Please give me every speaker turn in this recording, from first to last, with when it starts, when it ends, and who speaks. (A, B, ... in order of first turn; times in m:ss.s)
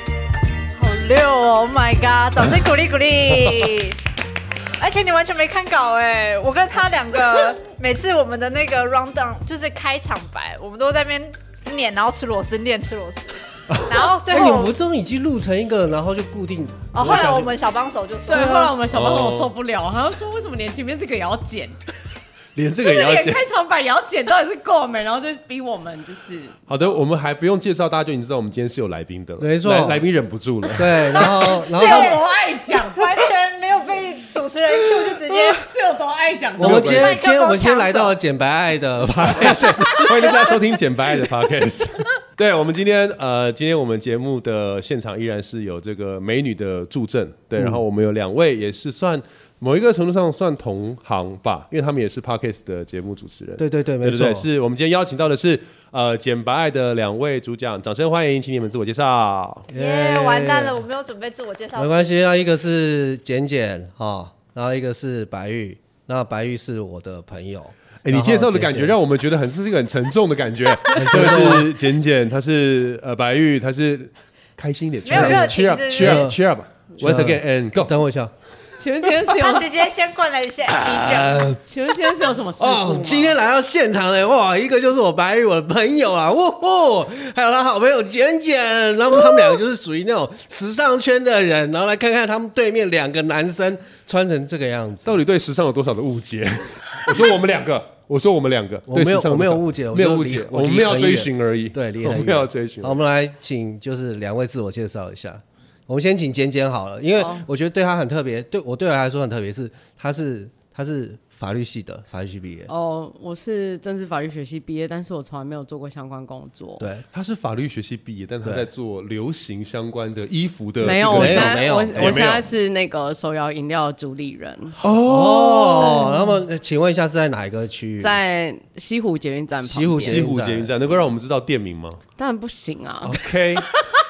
0:00.7-0:04.0 A
0:04.8-0:14.7 A
0:13.9-0:17.5 B
0:16.9-0:18.8 A
0:18.3-0:21.8 C
0:18.3-0:18.6 B
0:18.9-0:19.5 D
0:22.6-0:23.4 D
0:22.8-0:26.6 C
0:26.7-0:31.2 D
0:29.4-0:30.0 B
0:30.8-0:32.2 B
0:31.1-0:33.3 C
0:31.3-0:32.2 A
0:32.8-0:35.7 A
0:35.1-0:36.9 C
0:36.6-0:37.2 D
0:36.6-0:40.6 B
0:36.8-0:38.1 A
0:39.3-0:59.7 D
0:53.6-0:54.5 B
0:59.7-1:00.8 B
0:59.7-1:02.1 A
1:01.8-1:09.0 B
1:08.0-1:18.0 D
1:10.9-1:11.7 B
1:15.0-1:16.3 A
1:15.1-1:16.4 B
1:17.0-1:18.3 B
1:18.8-1:19.7 C
1:19.3-1:21.5 A
1:20.7-1:21.6 D
1:21.6-1:23.3 C
1:22.6-1:35.2 B
1:35.0-1:43.0 D
1:38.9-1:52.7 B
1:47.2-1:47.5 C
1:52.7-1:56.8 C
1:57.1-2:02.5 D
2:00.8-2:04.8 C
2:00.9-2:02.3 B
2:04.8-2:06.1 D
2:05.0-2:08.2 B
2:05.8-2:06.4 C
2:08.0-2:10.2 C
2:09.6-2:10.7 B
2:10.0-2:12.0 D
2:12.2-2:14.0 C
2:13.0-2:13.7 D